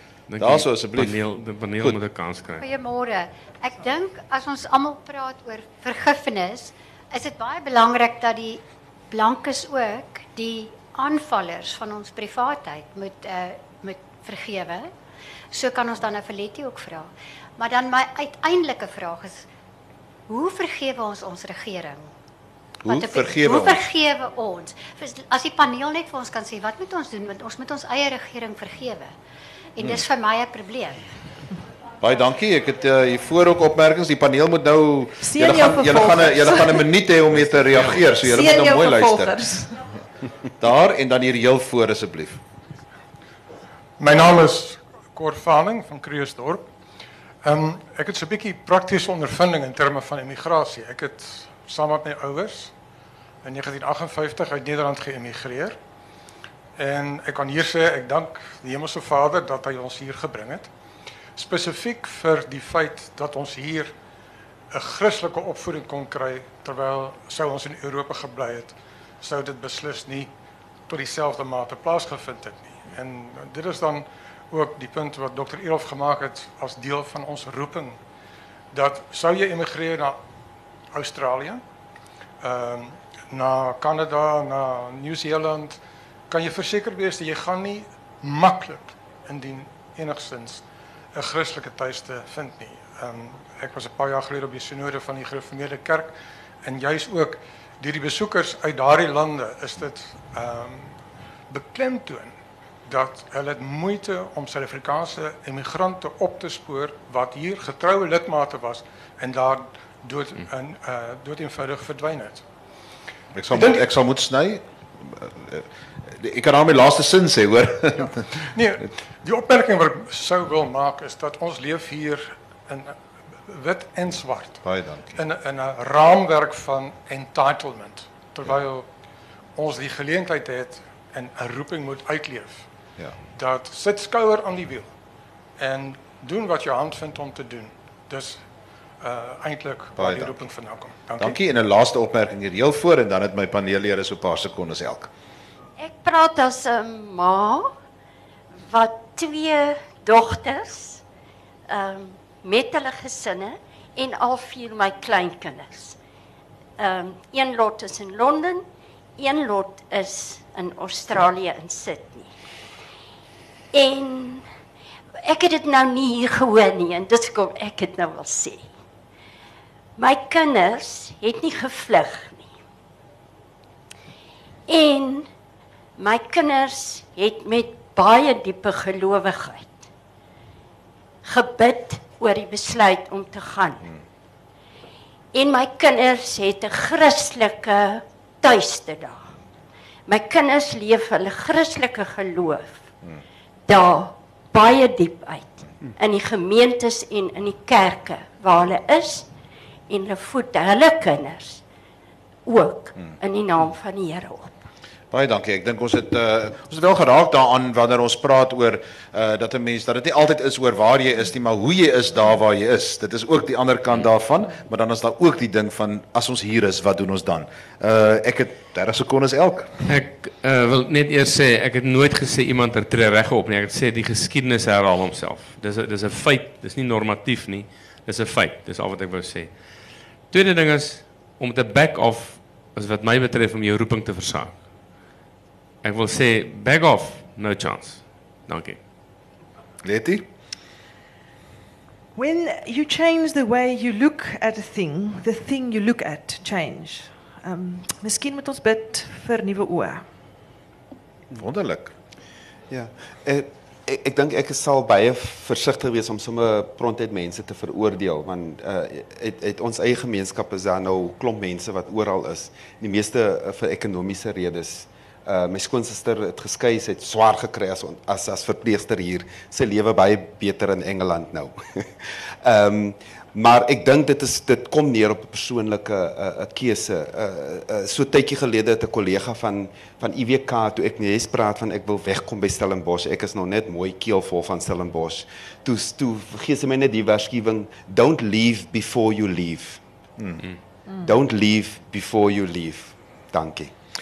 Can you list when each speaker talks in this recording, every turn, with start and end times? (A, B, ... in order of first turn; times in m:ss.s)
0:00.3-0:02.6 A
0:00.4-0:01.2 B
0:02.6-0:14.9 C
0:15.5-0:19.4 C
0:20.3-0:22.1 C
0:22.8-0:23.8 B
0:22.9-0:29.1 C
0:29.8-0:31.0 C
0:32.0-0:39.4 B
0:35.2-0:36.8 D
0:38.1-0:39.7 D
0:40.6-0:42.4 B
0:44.0-0:46.6 E
0:47.4-0:52.7 E
0:53.4-0:55.8 E
0:56.8-1:00.7 E
1:01.3-1:03.9 E
1:04.7-1:10.3 E
1:10.9-1:18.0 E
1:18.7-1:20.2 E
1:20.9-1:21.6 E
1:22.4-1:41.0 E
1:41.5-1:52.4 E
1:53.3-1:55.6 B
1:53.5-1:53.8 E
1:56.2-1:58.3 B
1:58.5-2:03.0 E
2:03.5-2:04.6 E
2:04.6-2:05.2 B
2:05.1-2:08.9 E
2:09.6-2:12.7 E
2:13.3-2:14.9 E
2:15.6-2:18.4 E
2:19.0-2:21.4 E
2:20.0-2:20.4 B
2:21.2-2:25.1 B
2:25.8-2:27.7 F
2:28.7-2:31.0 F
2:31.7-2:36.0 F
2:36.8-2:38.6 F
2:39.2-2:42.3 F
2:43.7-2:44.4 F
2:45.2-2:48.7 F
2:50.0-2:52.6 F
2:54.7-2:55.3 F
2:56.0-2:59.9 F
3:01.2-3:03.9 F
3:05.3-3:09.3 F
3:10.1-3:12.8 F
3:13.6-3:19.3 F
3:19.9-3:21.6 F
3:22.4-3:24.6 F
3:25.1-3:39.7 B
3:39.8-3:49.5 A
3:50.3-3:54.6 A
3:55.8-3:58.8 A
3:59.8-4:00.2 B
4:02.2-4:10.0 D
4:11.3-4:11.9 B
4:12.7-4:49.8 G
4:50.2-4:50.4 B
4:51.0-4:53.7 G